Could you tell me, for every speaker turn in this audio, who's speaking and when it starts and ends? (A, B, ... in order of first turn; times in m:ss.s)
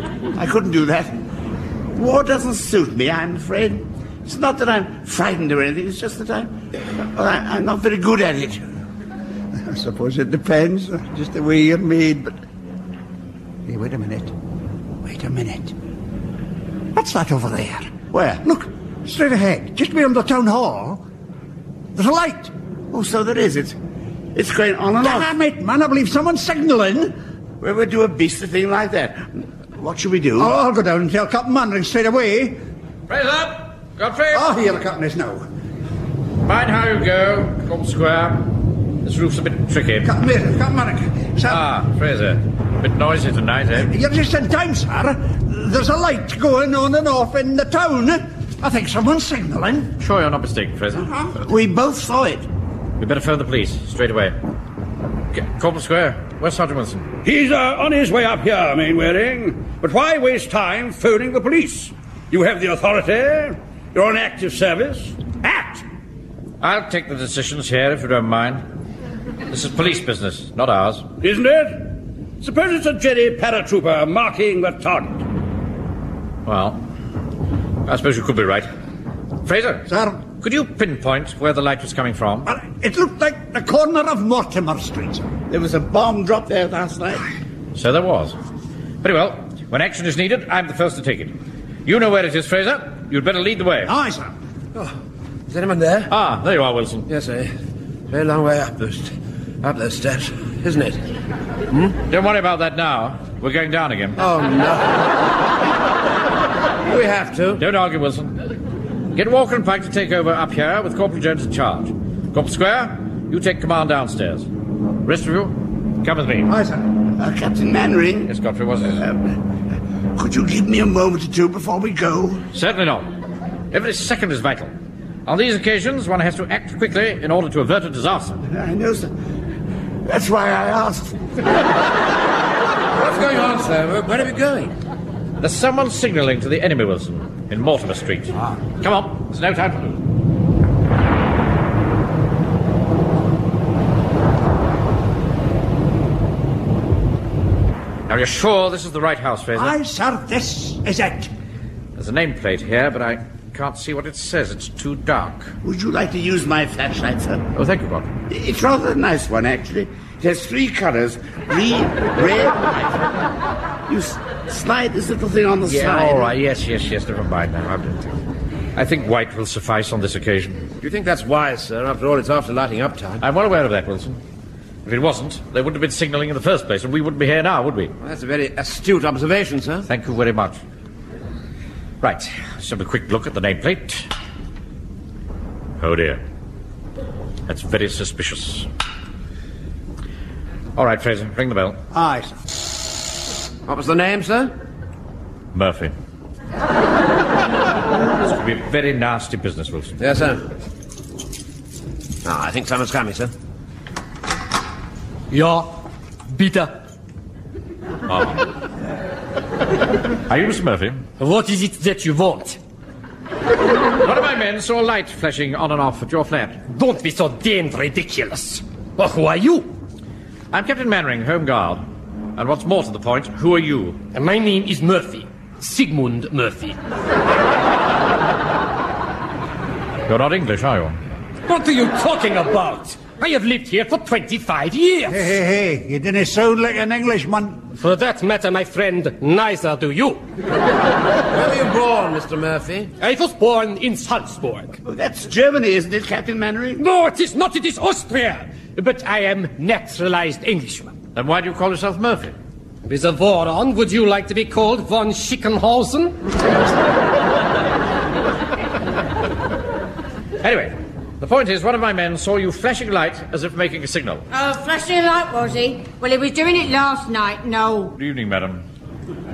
0:00.3-0:01.1 A
0:01.9-0:08.6 A
0:09.6-0:12.3 B
0:13.6-0:14.3 B
0:15.0-0:15.7 B
0:16.9-0:21.0 B
0:18.1-0:18.4 A
0:21.9-0:22.5 B
0:22.9-0:23.8 A
0:24.3-0:25.3 A
0:25.0-0:27.1 B
0:27.6-0:30.5 A
0:30.4-0:32.6 B
0:33.1-0:34.5 C
0:34.3-0:35.4 B
0:36.4-0:38.5 C
0:39.0-0:40.1 C
0:40.0-0:41.6 B
0:41.5-0:43.9 C
0:43.8-0:49.9 B
0:50.0-0:51.0 C
0:51.2-0:52.4 A
0:53.0-0:54.4 C
0:55.3-0:57.0 C
0:57.2-1:05.8 D
1:06.6-1:08.6 C
1:09.5-1:11.0 C
1:11.2-1:15.2 D
1:16.4-1:16.8 C
1:17.8-1:18.7 C
1:19.4-1:22.5 C
1:19.9-1:20.2 B
1:22.4-1:25.3 B
1:25.5-1:27.2 A
1:27.7-1:28.4 C
1:29.0-1:31.3 C
1:31.8-1:33.9 C
1:33.8-1:34.3 B
1:35.5-1:36.1 E
1:36.1-1:37.1 C
1:37.1-1:37.5 E
1:38.1-1:41.1 E
1:41.7-1:42.0 E
1:42.1-1:44.2 C
1:44.2-1:45.1 E
1:46.8-1:47.6 E
1:47.6-1:48.3 C
1:49.1-1:54.5 C
1:55.0-1:56.5 C
1:56.5-1:56.8 B
1:57.2-1:58.3 A
1:58.3-1:59.0 C
1:59.0-1:59.4 A
2:00.2-2:02.4 A
2:02.5-2:03.1 C
2:03.7-2:04.7 C
2:05.2-2:08.4 C
2:08.5-2:09.1 A
2:10.0-2:11.2 A
2:12.9-2:14.7 E
2:15.4-2:20.0 C
2:28.1-2:29.8 C
2:29.6-2:31.3 B
2:32.0-2:35.5 C
2:35.6-2:37.4 A
2:37.5-2:38.1 C
2:38.3-2:43.0 A
2:43.9-2:46.3 A
2:45.7-2:48.1 C
2:48.7-2:50.6 C
2:50.8-2:53.2 E
2:53.2-2:54.2 C
2:54.8-2:57.9 C
2:58.0-2:59.9 E
2:59.9-3:00.6 C
3:02.0-3:04.1 C
3:05.8-3:06.2 C
3:07.5-3:08.7 C
3:10.8-3:11.8 C
3:11.9-3:12.4 B
3:13.6-3:14.5 E
3:15.5-3:15.9 C
3:18.1-3:20.0 C
3:20.0-3:20.4 E
3:22.2-3:23.3 E
3:25.3-3:26.7 F
3:28.1-3:28.5 C
3:30.3-3:31.0 C
3:31.2-3:32.6 F
3:34.0-3:36.6 C
3:36.7-3:39.7 F
3:40.5-3:41.8 C
3:42.4-3:44.0 C
3:44.1-3:46.8 F
3:50.1-3:51.0 C
3:51.5-3:55.2 F
3:55.1-3:57.6 B
3:57.7-4:00.2 F
4:01.3-4:02.9 E
4:03.0-4:04.8 F
4:04.8-4:06.8 A
4:06.8-4:10.9 F
4:11.1-4:12.3 C
4:12.8-4:16.2 F
4:20.4-4:24.2 C
4:24.3-4:27.9 G
4:28.0-4:28.6 C